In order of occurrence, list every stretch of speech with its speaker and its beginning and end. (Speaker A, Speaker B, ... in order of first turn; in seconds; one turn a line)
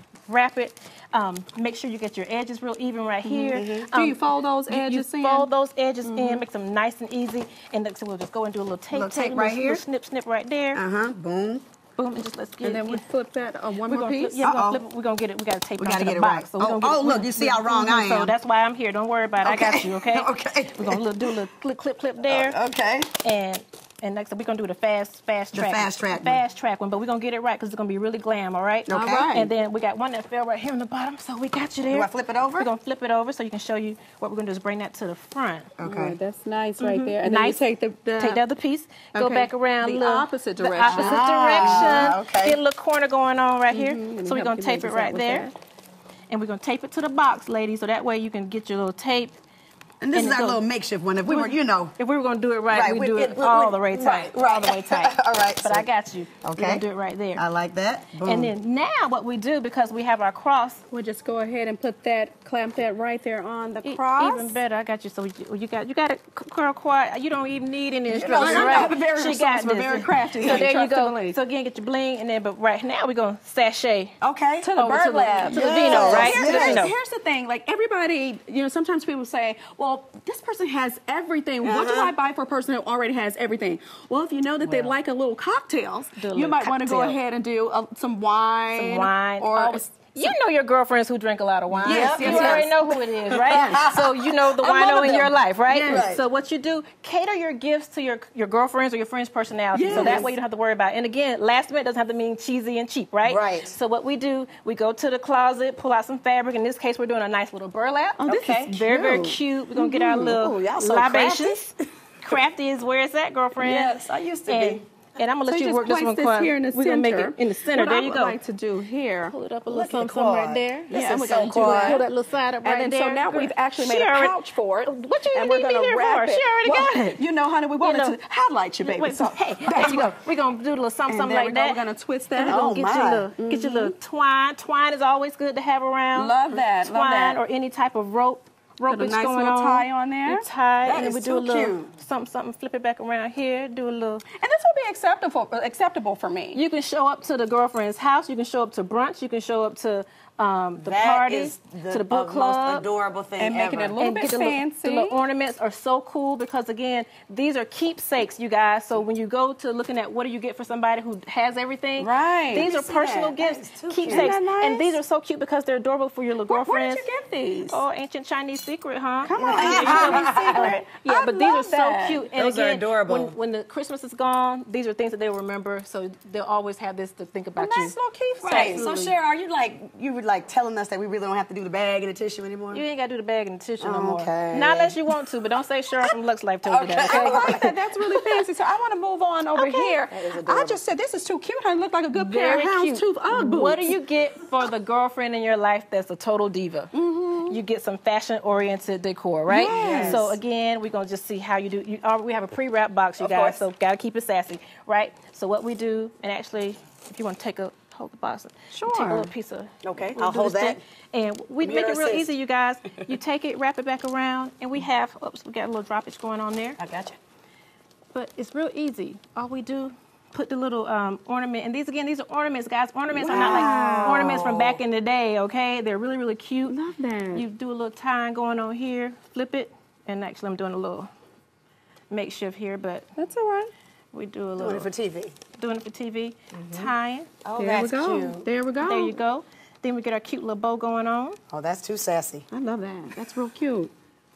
Speaker A: 0.3-10.8
Speaker B: 3.2-5.5
Speaker C: 3.5-3.9
Speaker B: 6.0-6.4
Speaker C: 8.9-9.8
Speaker C: 10.7-11.6
Speaker A: 12.0-13.0
Speaker B: 12.6-14.4
Speaker A: 13.8-22.6
Speaker C: 14.4-14.8
Speaker C: 15.8-18.3
Speaker C: 19.4-21.4
Speaker C: 22.2-23.1
Speaker A: 23.2-35.7
Speaker C: 25.5-26.4
Speaker C: 28.9-29.5
Speaker B: 28.9-29.3
Speaker C: 31.9-32.7
Speaker C: 35.8-36.1
Speaker B: 35.8-38.4
Speaker A: 36.8-37.6
Speaker A: 38.1-45.5
Speaker B: 39.1-42.1
Speaker C: 40.9-42.6
Speaker B: 43.7-45.5
Speaker A: 46.3-49.4
Speaker C: 50.0-51.9
Speaker A: 50.1-50.6
Speaker A: 51.2-57.4
Speaker C: 52.7-55.9
Speaker C: 56.4-56.8
Speaker C: 57.4-58.5
Speaker A: 58.2-60.8
Speaker B: 60.9-64.6
Speaker A: 63.8-74.1
Speaker C: 68.1-69.0
Speaker B: 68.2-71.4
Speaker C: 70.4-70.7
Speaker C: 74.2-74.7
Speaker B: 74.6-90.3
Speaker A: 74.8-76.9
Speaker C: 75.5-76.9
Speaker C: 81.6-82.1
Speaker A: 86.2-87.2
Speaker A: 88.7-118.4
Speaker C: 91.8-92.7
Speaker B: 91.8-93.8
Speaker C: 93.3-96.2
Speaker B: 95.7-96.1
Speaker B: 99.7-100.3
Speaker C: 99.9-100.3
Speaker C: 103.2-103.7
Speaker B: 108.2-109.4
Speaker C: 108.3-108.8
Speaker C: 109.7-111.6
Speaker C: 113.6-114.8
Speaker B: 115.5-119.3
Speaker A: 119.3-127.2
Speaker C: 119.7-122.0
Speaker B: 120.9-122.0
Speaker B: 122.6-130.2
Speaker A: 127.8-128.2
Speaker A: 128.8-131.8
Speaker B: 131.1-132.6
Speaker A: 132.3-144.2
Speaker C: 132.4-133.3
Speaker B: 133.4-133.9
Speaker B: 136.1-137.4
Speaker B: 138.8-140.4
Speaker C: 140.8-141.9
Speaker B: 144.4-146.6
Speaker A: 146.5-152.8
Speaker C: 150.8-154.0
Speaker B: 153.4-155.2
Speaker A: 154.0-167.1
Speaker B: 162.0-162.7
Speaker C: 162.5-164.3
Speaker B: 164.0-165.0
Speaker B: 166.5-167.8
Speaker A: 167.7-179.1
Speaker B: 169.2-172.3
Speaker C: 169.3-170.7
Speaker C: 172.3-173.3
Speaker B: 177.6-178.9
Speaker C: 178.4-182.8
Speaker A: 182.7-188.3
Speaker C: 183.8-185.0
Speaker C: 186.6-187.7
Speaker B: 187.0-193.9
Speaker A: 189.5-190.0
Speaker C: 190.1-190.8
Speaker A: 192.1-196.9
Speaker B: 196.9-197.6
Speaker A: 197.4-216.8
Speaker B: 199.5-200.2
Speaker C: 199.6-200.4
Speaker C: 203.2-203.6
Speaker B: 208.7-209.3
Speaker C: 209.8-210.8
Speaker C: 211.6-212.3
Speaker C: 216.8-217.2
Speaker A: 218.1-226.8
Speaker B: 223.1-224.4
Speaker C: 223.3-224.8
Speaker B: 226.7-227.4
Speaker A: 227.3-231.1
Speaker A: 232.1-233.1
Speaker B: 233.2-233.7
Speaker A: 234.1-234.9
Speaker C: 234.6-235.3
Speaker A: 235.5-237.3
Speaker C: 236.5-236.9
Speaker C: 237.4-238.5
Speaker B: 237.6-239.2
Speaker A: 238.8-241.4
Speaker C: 241.5-242.5
Speaker B: 242.5-243.9